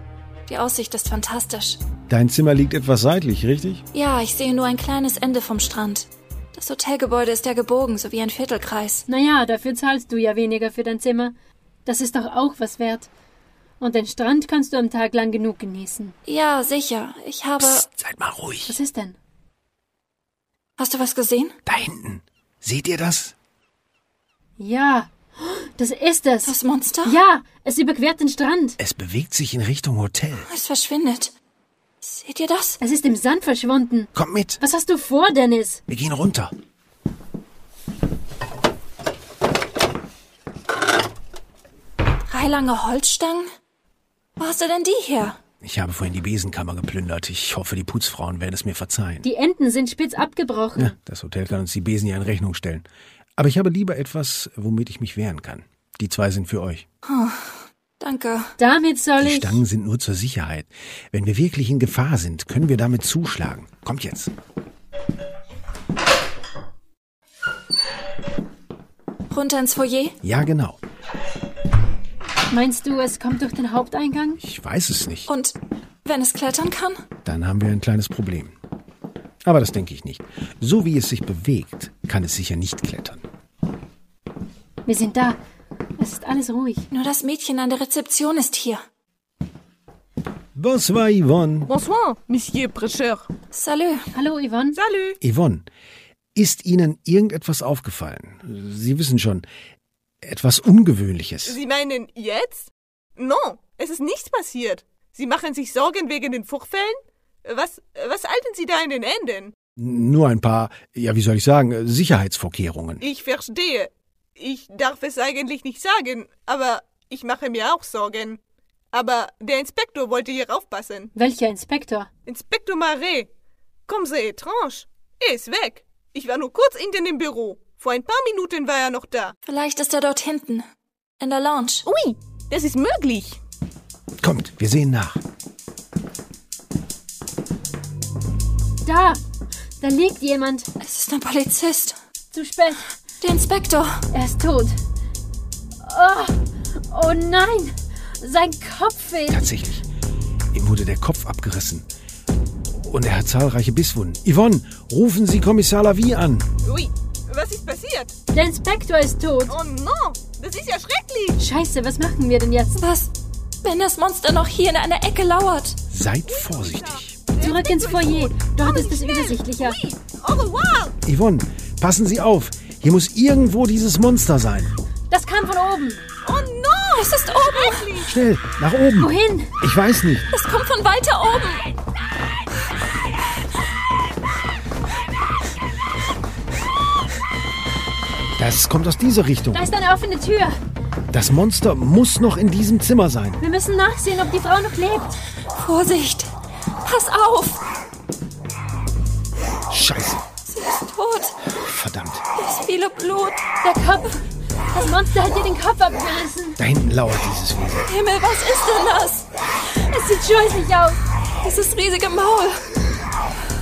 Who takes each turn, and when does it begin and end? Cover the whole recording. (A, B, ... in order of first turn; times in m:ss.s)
0:00.5-0:01.8 A
0:02.1-0:03.8 B
0:03.9-0:09.0 A
0:09.1-0:11.3 C
0:11.9-0:13.1 C
0:13.8-0:16.2 C
0:16.3-0:17.8 A
0:17.6-0:18.8 B
0:18.7-0:19.2 C
0:20.8-0:21.6 A
0:21.7-0:23.4 B
0:24.6-0:28.8 C
0:26.4-0:27.2 A
0:28.8-0:30.5 B
0:30.5-0:31.3 A
0:32.0-0:32.8 A
0:32.8-0:35.8 C
0:34.1-0:34.6 B
0:35.9-0:36.5 B
0:42.3-0:43.5 A
0:44.4-0:45.4 A
0:45.6-0:49.2 B
0:49.2-0:51.0 C
0:50.8-0:52.9 B
0:53.4-0:56.9 B
0:57.0-0:58.5 A
0:58.6-0:59.6 C
0:59.2-1:04.3 B
1:09.3-1:10.2 A
1:10.2-1:10.8 B
1:12.5-1:14.4 C
1:14.4-1:15.3 B
1:15.3-1:17.0 A
1:17.2-1:18.6 B
1:19.4-1:23.2 B
1:24.9-1:25.4 C
1:26.0-1:26.8 C
1:26.9-1:28.8 A
1:30.6-1:31.7 B
1:31.7-1:33.3 D
1:33.5-1:34.1 A
1:34.1-1:34.8 C
1:34.8-1:35.2 D
1:35.2-1:35.7 B
1:36.4-1:39.4 B
1:40.2-1:41.6 B
1:41.4-1:49.5 D
1:49.8-1:53.0 B
1:53.0-1:58.4 D
1:58.9-2:01.1 D
2:01.2-2:02.1 C
2:02.3-2:03.3 D
2:03.9-2:09.3 D
2:09.5-2:10.7 A
2:11.2-2:11.8 A
2:11.8-2:13.4 D
2:14.2-2:15.2 B
2:18.8-2:19.2 C
2:19.8-2:20.7 C
2:20.8-2:22.0 A
2:22.3-2:22.9 C
2:23.2-2:24.0 A
2:24.1-2:24.8 C
2:25.8-2:26.4 C
2:26.9-2:29.4 C
2:29.3-2:29.9 B
2:30.5-2:31.9 B
2:32.7-2:36.5 B
2:36.6-2:38.1 D
2:38.3-2:39.6 C
2:39.5-2:41.4 D
2:41.4-2:42.8 C
2:42.8-2:43.1 A
2:43.6-2:45.8 A
2:45.9-2:47.2 B
2:46.3-2:51.0 D
2:47.4-2:49.8 C
2:51.0-2:54.7 B
2:55.1-2:56.0 C
2:56.2-2:58.1 D
2:56.9-2:57.9 A
2:58.0-3:00.3 B
2:59.0-2:59.5 C
3:00.3-3:01.7 A
3:08.4-3:09.7 B
3:09.5-3:10.6 C
3:11.1-3:13.4 B
3:13.4-3:15.1 C
3:15.5-3:16.3 A
3:16.8-3:17.6 A
3:19.7-3:20.2 B
3:20.5-3:21.3 A
3:21.5-3:22.2 B
3:22.4-3:23.4 A
3:23.6-3:26.6 C
3:26.6-3:27.9 B
3:27.9-3:29.3 A
3:29.9-3:31.0 C
3:31.4-3:32.8 A